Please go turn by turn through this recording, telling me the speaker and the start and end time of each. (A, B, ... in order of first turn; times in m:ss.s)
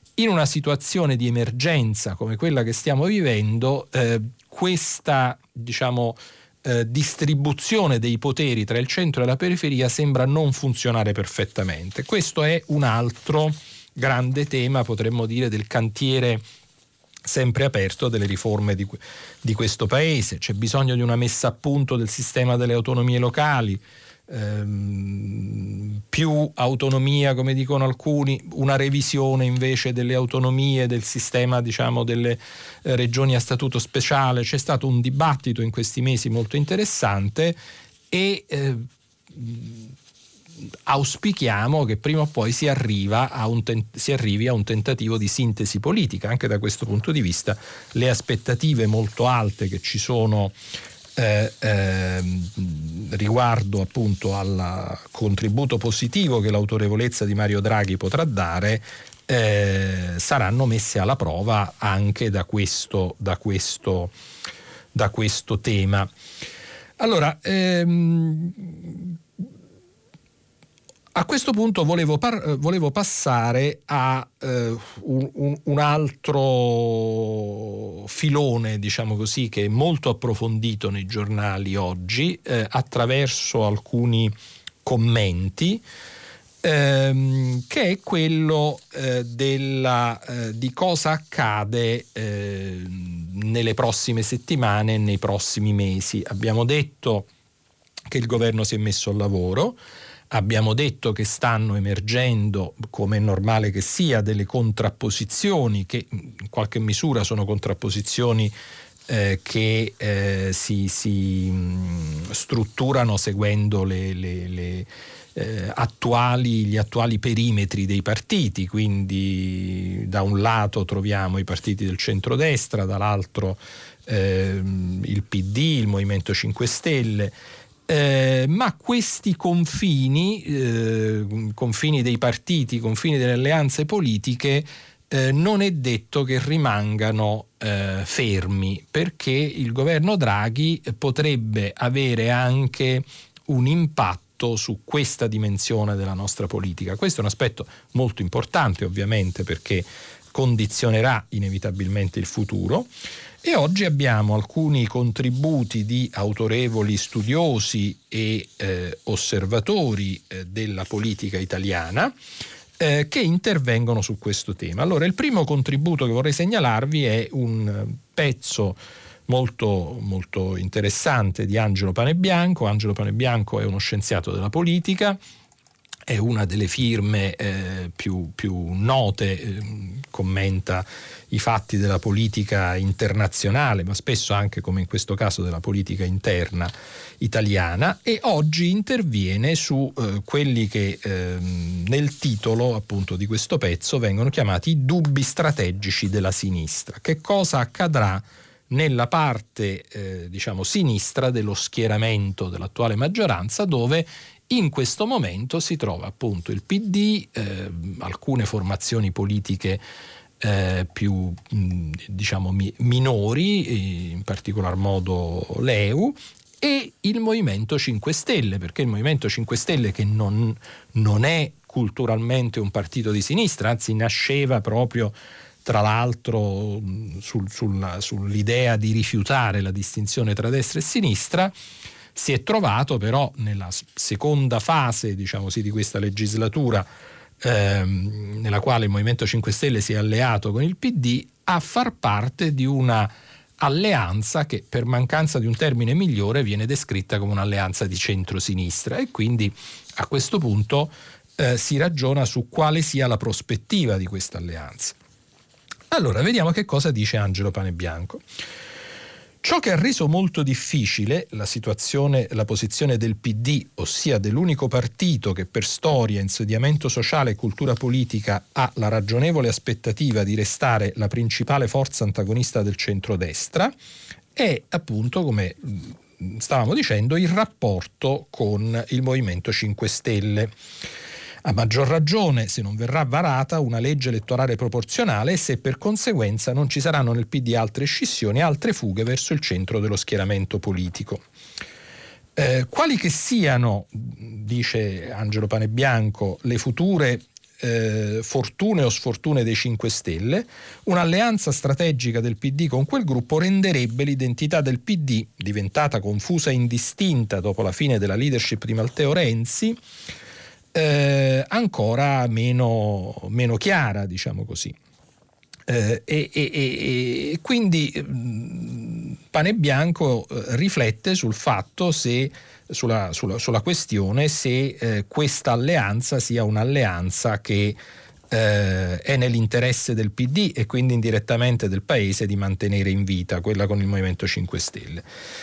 0:00.2-0:16.4 A
0:17.2-0:37.6 A
0:38.1-0:39.9 A
0:40.9-0:50.6 A
0:51.2-1:04.1 A
1:04.9-1:06.1 A
1:07.0-1:09.2 A
1:11.1-1:24.3 A
1:24.8-1:25.8 A
1:26.6-1:37.3 A
1:38.1-1:39.8 A
1:40.3-1:48.5 A
1:49.1-2:07.3 A
2:07.9-2:32.9 A
2:33.4-2:42.1 A
2:42.8-2:55.2 A
2:56.1-3:29.8 A
3:30.4-3:51.5 A
3:52.1-3:56.9 A
3:57.4-4:15.0 A
4:15.9-4:18.2 A
4:19.4-4:33.7 A
4:34.3-4:40.5 A
4:41.4-4:51.2 A
4:52.4-5:09.8 A
5:10.7-5:14.7 A
5:15.7-5:27.8 A
5:28.3-5:35.0 A